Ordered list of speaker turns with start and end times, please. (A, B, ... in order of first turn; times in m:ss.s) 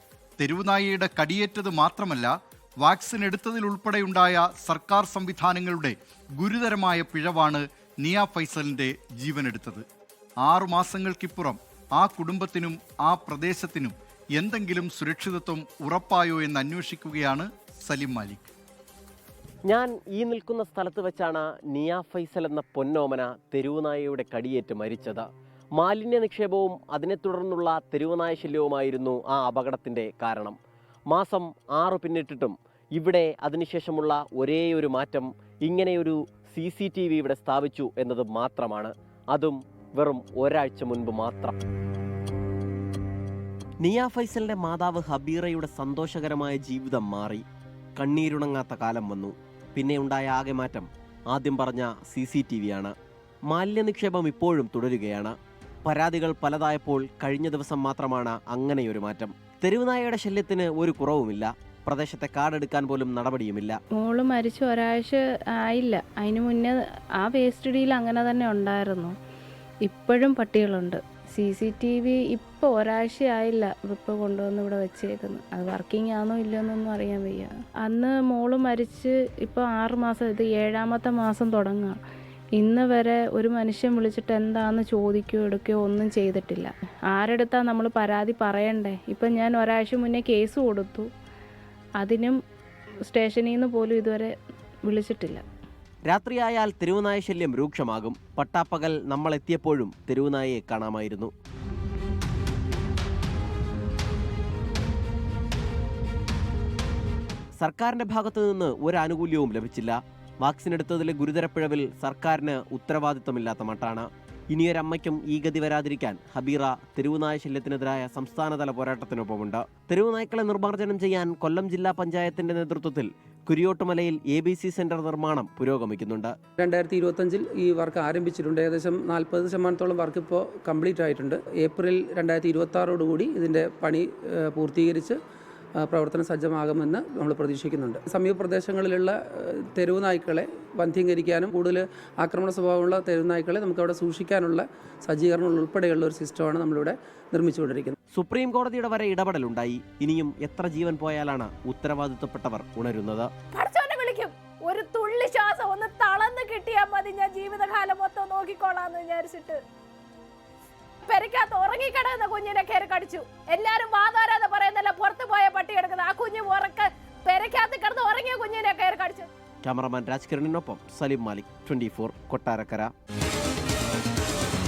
0:00.4-0:02.3 A
0:02.8-0:09.9 A
0:10.4-0:18.5 A
0:19.7-0:25.3 B
0:25.8-0:30.6 B
0:31.1-0:41.5 B
0:43.8-0:47.4 B
0:48.0-0:52.9 B
0:53.5-1:03.8 B
1:04.0-1:09.2 C
1:09.8-1:22.0 C
1:22.6-1:31.1 C
1:32.0-1:32.4 C
1:33.1-1:34.3 C
1:34.9-1:35.4 C
1:36.1-1:41.3 B
1:47.6-2:06.3 B
2:06.6-2:15.2 D
2:15.8-2:28.0 D
2:28.2-2:33.3 B
2:33.5-2:39.6 E
2:41.1-2:49.3 E
2:49.6-2:52.9 B